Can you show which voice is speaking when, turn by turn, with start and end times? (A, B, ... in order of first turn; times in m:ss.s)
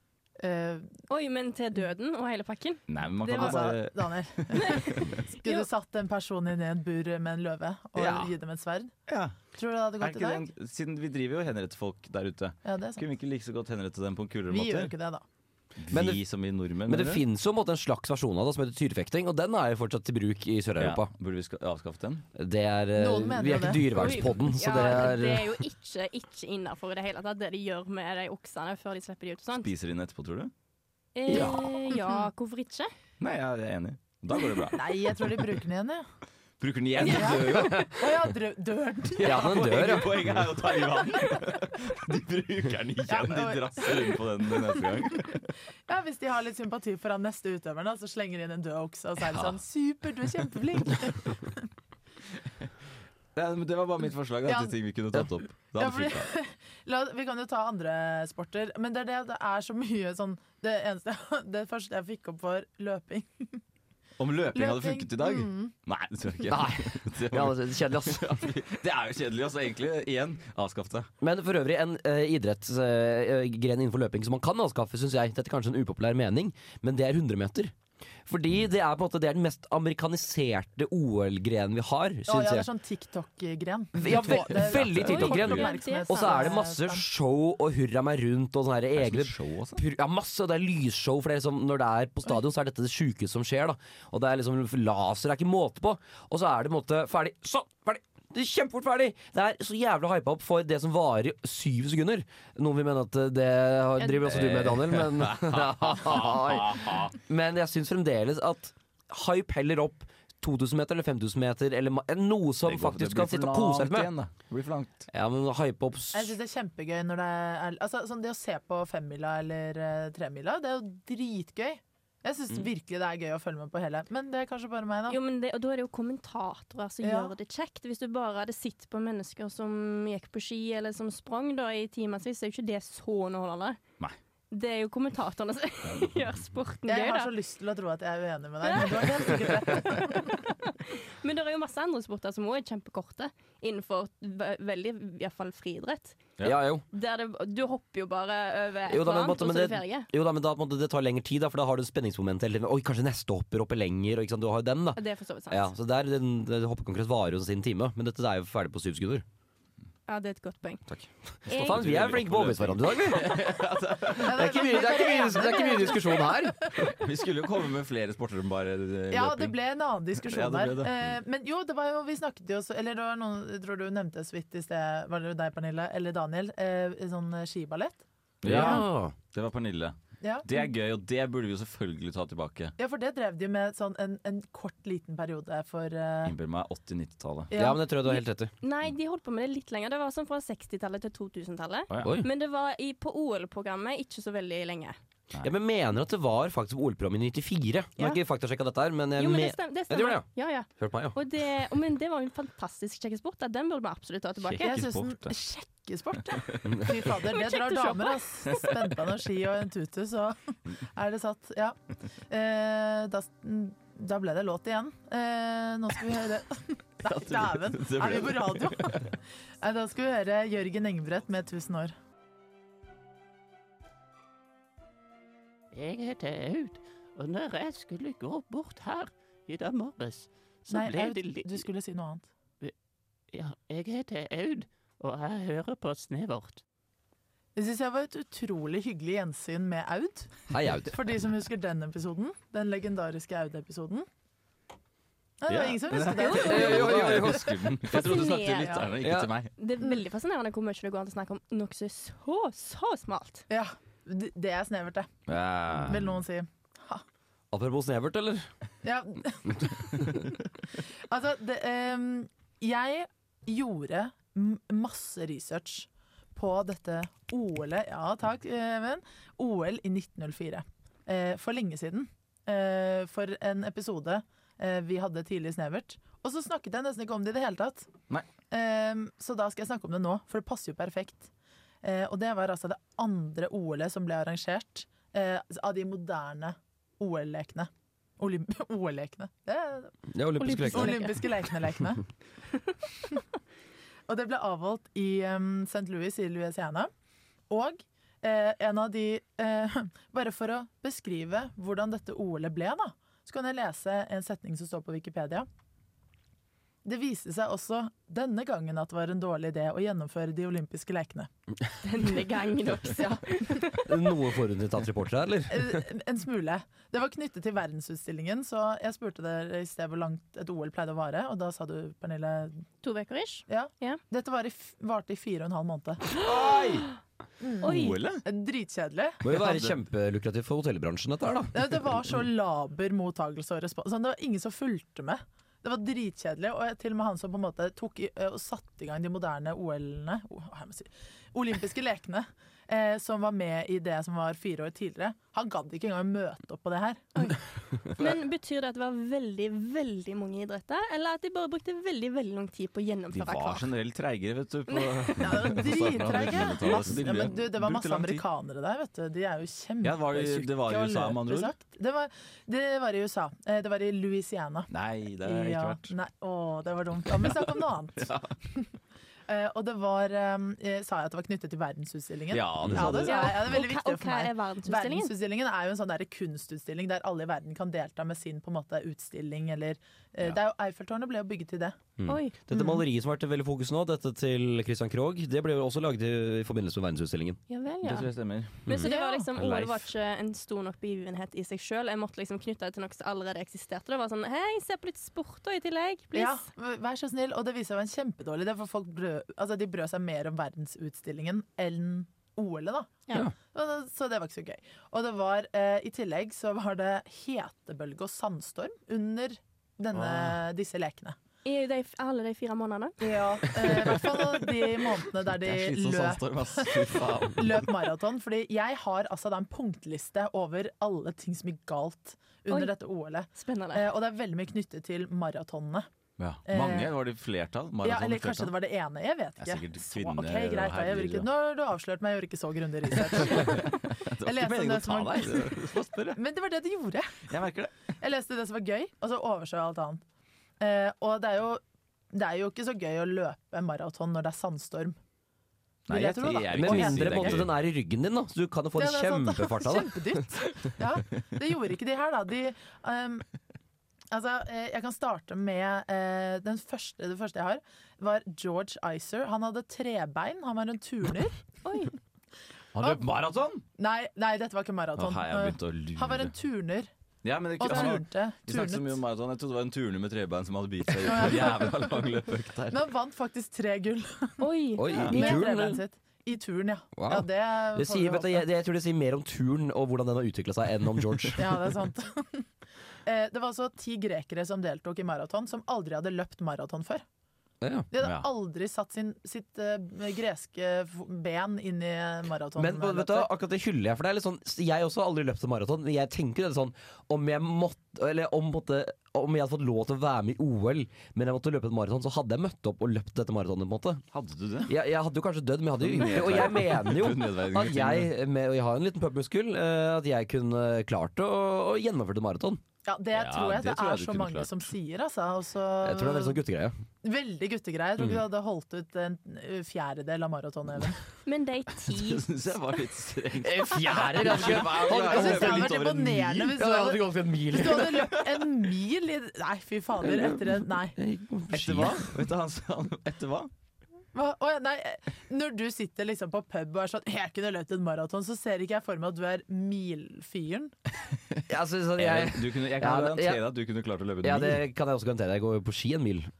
0:00.4-0:00.9 A
0:01.1-0:03.7 B
0:02.9-0:05.3 C
0:03.2-0:08.9 A
0:08.0-0:08.3 C
0:09.1-0:09.4 C
0:09.5-0:10.5 A
0:10.0-0:14.9 C
0:12.6-0:13.0 A
0:14.5-0:15.2 A
0:15.8-0:17.2 C
0:15.9-0:16.2 D
0:16.8-0:21.1 D
0:20.8-0:22.2 C
0:22.4-0:25.6 D
0:23.0-0:24.1 A
0:23.9-0:29.7 B
0:29.5-0:30.5 C
0:31.2-0:32.9 B
0:31.3-0:31.7 D
0:33.2-0:34.8 C
0:34.8-0:36.0 A
0:36.6-0:37.9 C
0:37.0-0:37.3 B
0:37.1-0:39.9 A
0:37.2-0:37.9 D
0:39.2-0:45.5 C
0:39.2-0:40.4 D
0:43.1-0:44.2 A
0:45.9-0:51.7 A
0:49.2-0:49.6 C
0:53.3-0:56.3 C
0:54.4-0:54.8 A
0:55.8-1:03.6 A
1:04.2-1:11.1 C
1:04.5-1:05.7 A
1:06.4-1:08.5 D
1:11.2-1:17.7 D
1:18.2-1:22.7 D
1:22.3-1:27.0 A
1:23.9-1:54.1 D
1:24.1-1:25.6 C
1:25.1-1:26.5 B
1:29.0-1:29.8 C
1:44.1-1:47.1 C
1:52.6-1:55.1 C
1:55.1-1:56.3 D
1:56.1-2:05.2 A
2:05.1-2:13.8 B
2:07.0-2:07.3 A
2:14.5-2:17.3 B
2:16.9-2:20.4 A
2:18.6-2:26.3 B
2:26.4-2:26.8 D
2:26.9-2:30.1 B
2:28.9-2:39.2 D
2:35.0-2:35.7 B
2:40.1-2:40.8 B
2:40.9-2:46.7 D
2:41.5-2:41.8 B
2:41.5-2:44.3 C
2:44.2-2:46.3 A
2:46.8-2:49.5 C
2:49.1-2:58.8 A
2:50.2-2:50.9 C
2:58.4-3:02.7 C
2:58.4-2:59.1 D
3:00.2-3:00.4 A
3:02.8-3:06.3 A
3:06.2-3:07.5 C
3:07.5-3:07.8 A
3:07.5-3:08.5 D
3:08.1-3:15.0 B
3:11.9-3:12.2 C
3:12.0-3:12.3 D
3:15.4-3:21.2 D
3:19.2-3:24.8 B
3:24.4-3:25.3 C
3:24.6-3:31.8 A
3:27.4-3:28.2 B
3:32.3-3:41.9 A
3:37.0-3:39.1 C
3:45.7-3:51.6 E
3:50.7-3:52.3 A
3:53.3-3:56.6 E
3:57.6-4:04.0 A
4:00.5-4:01.0 D
4:05.4-4:07.2 A
4:05.5-4:09.5 C
4:06.2-4:07.0 B
4:06.2-4:07.8 D
4:07.9-4:08.9 B
4:09.0-4:09.3 D
4:09.6-4:13.4 B
4:13.5-4:15.1 A
4:15.3-4:16.2 C
4:15.7-4:17.0 A
4:17.5-4:18.5 D
4:18.8-4:20.3 A
4:21.1-4:37.9 A
4:38.5-4:41.3 A
4:41.8-4:50.0 A
4:50.1-4:51.1 D
4:50.4-4:51.3 B
4:50.6-4:52.0 A
4:54.1-4:56.9 A
4:57.5-5:05.5 A
5:06.8-5:11.3 A
5:11.8-5:14.0 B
5:13.7-5:15.8 D
5:15.5-5:22.6 A
5:22.8-5:24.0 B
5:23.5-5:26.0 A
5:26.1-5:26.9 C
5:27.4-5:27.7 A
5:27.6-5:28.0 B
5:27.6-5:28.2 C
5:28.2-5:29.6 A
5:29.2-5:31.9 D
5:31.5-5:47.1 A
5:47.2-5:53.7 B
5:53.1-5:58.2 C
5:54.7-5:55.2 B
5:55.2-6:04.7 A
5:59.8-6:01.5 C
6:04.7-6:05.9 C
6:05.2-6:08.6 A
6:07.2-6:07.4 C
6:08.0-6:08.3 C
6:09.3-6:21.8 A
6:12.3-6:13.5 C
6:12.6-6:12.9 D
6:13.0-6:15.1 B
6:22.0-6:27.4 D
6:22.1-6:22.4 B
6:27.5-6:28.1 B
6:27.8-6:28.7 C
6:28.6-6:36.4 B
6:28.8-6:29.3 A
6:29.3-6:29.9 C
6:36.1-6:43.0 A
6:43.5-6:51.2 A
6:50.0-6:50.3 C
6:51.4-6:53.0 B
6:53.0-7:05.9 A
6:53.9-6:54.1 C
6:55.3-6:57.7 C
7:03.3-7:03.9 B
7:06.2-7:08.5 C
7:06.4-7:07.0 A
7:07.8-7:15.6 A
7:09.4-7:11.3 C
7:13.1-7:16.2 C
7:16.1-7:17.3 A
7:17.3-7:17.7 C
7:18.0-7:20.0 A
7:20.6-7:25.0 A
7:25.9-7:27.5 C
7:25.9-7:27.5 A
7:26.3-7:30.2 D
7:28.8-7:33.2 A
7:34.1-7:41.4 A
7:41.6-7:41.9 B
7:42.7-7:43.6 C
7:42.8-7:43.1 A
7:43.8-7:46.9 A
7:45.0-7:46.3 C
7:47.2-7:52.8 C
7:47.6-7:49.0 A
7:51.0-7:52.0 A
7:52.7-7:54.4 A
7:54.4-7:55.4 B
7:54.8-7:55.8 D
7:55.1-7:58.4 A
7:57.0-8:01.5 D
8:01.4-8:02.5 A
8:03.0-8:07.0 A
8:07.6-8:07.9 D
8:07.9-8:13.3 A
8:08.0-8:08.3 C
8:12.6-8:24.0 D
8:24.1-8:24.7 C
8:24.7-8:32.6 D
8:25.8-8:28.1 C
8:32.8-8:36.4 A
8:33.1-8:34.6 C
8:35.8-8:36.7 D
8:37.0-8:41.0 A
8:41.2-8:42.3 B
8:41.9-8:46.6 C
8:43.4-8:45.9 D
8:44.9-8:51.0 A
8:46.4-8:48.1 D
8:50.0-8:52.2 D
8:51.5-8:53.5 C
8:54.1-9:00.7 A
9:01.5-9:03.4 D
9:02.0-9:04.6 C
9:04.2-9:06.3 D